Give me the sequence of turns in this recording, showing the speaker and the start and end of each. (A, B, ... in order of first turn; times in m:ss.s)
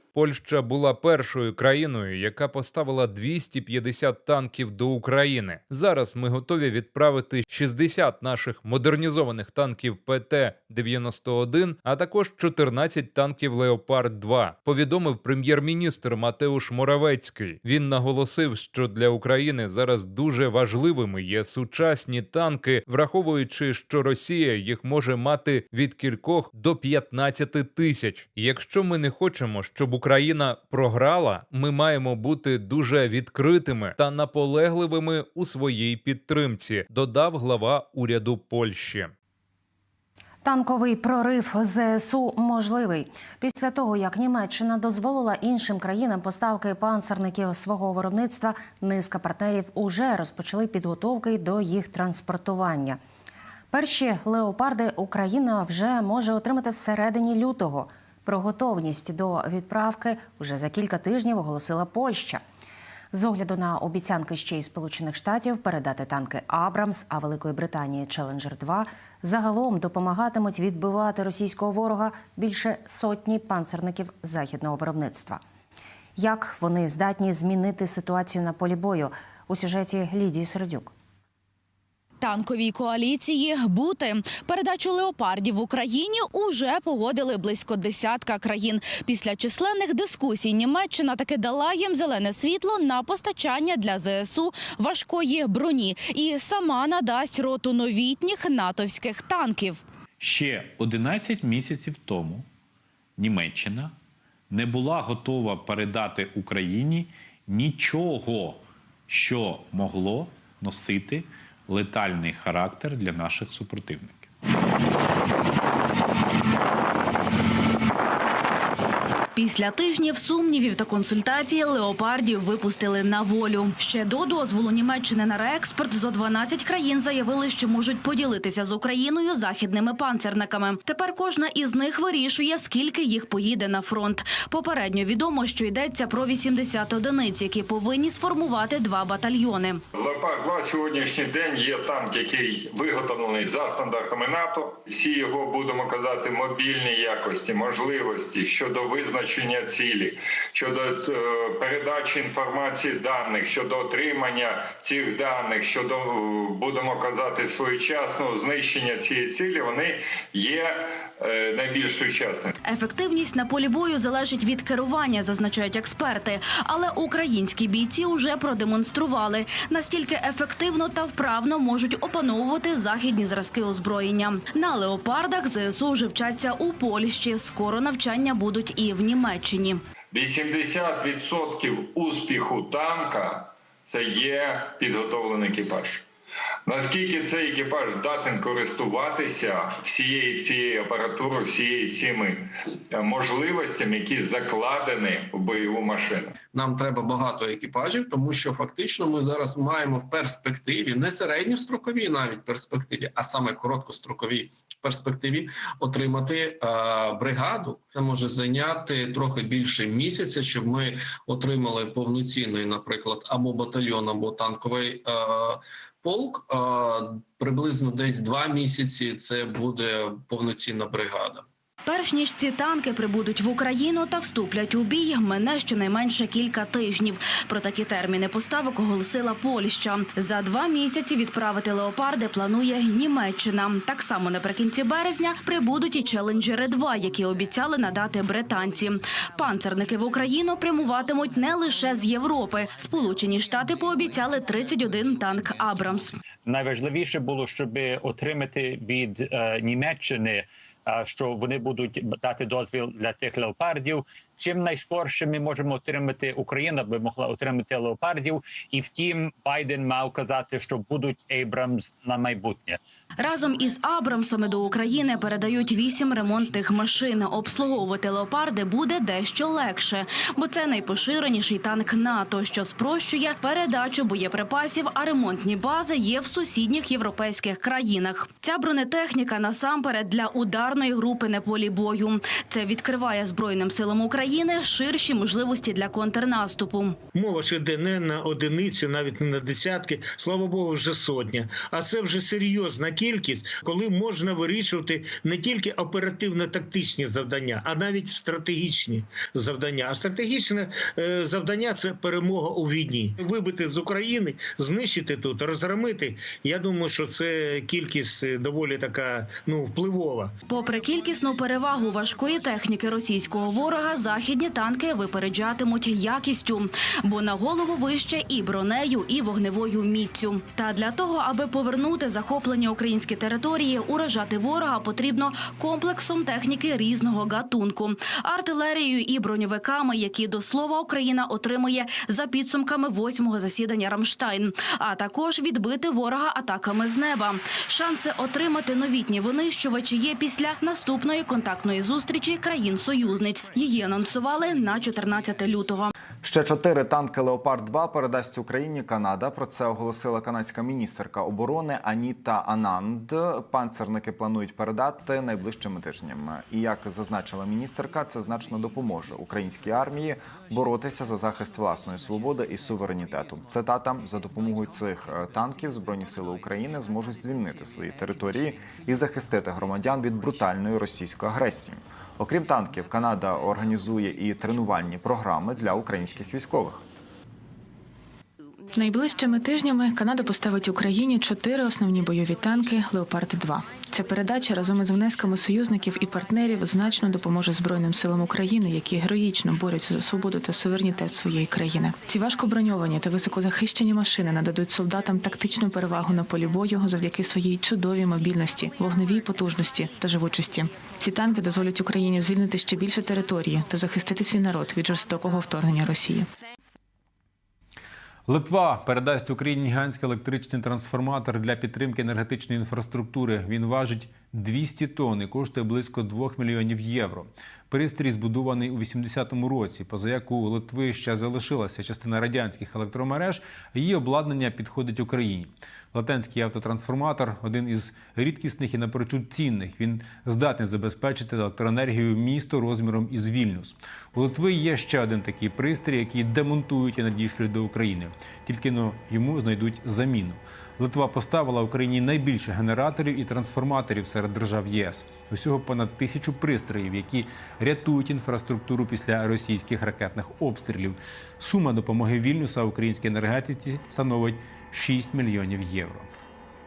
0:00.1-0:39.1 A
0:40.4-0:53.0 B
0:53.7-1:02.4 B
1:03.1-1:15.4 B
1:16.2-1:20.9 B
1:22.2-1:39.8 C
1:40.2-1:42.5 D
1:43.2-1:44.0 D
1:44.5-1:54.3 D
1:59.4-2:19.8 C
2:19.9-2:42.5 E
2:42.6-2:59.8 C
3:00.1-3:06.0 E
3:06.7-3:16.3 E
3:16.5-3:41.5 F
3:41.9-4:06.2 C
4:06.4-4:22.8 G
4:23.2-4:47.0 C
4:47.2-5:10.3 H
5:10.5-5:45.9 C
5:46.2-6:16.8 I
6:18.8-6:46.3 J
6:48.3-7:36.1 K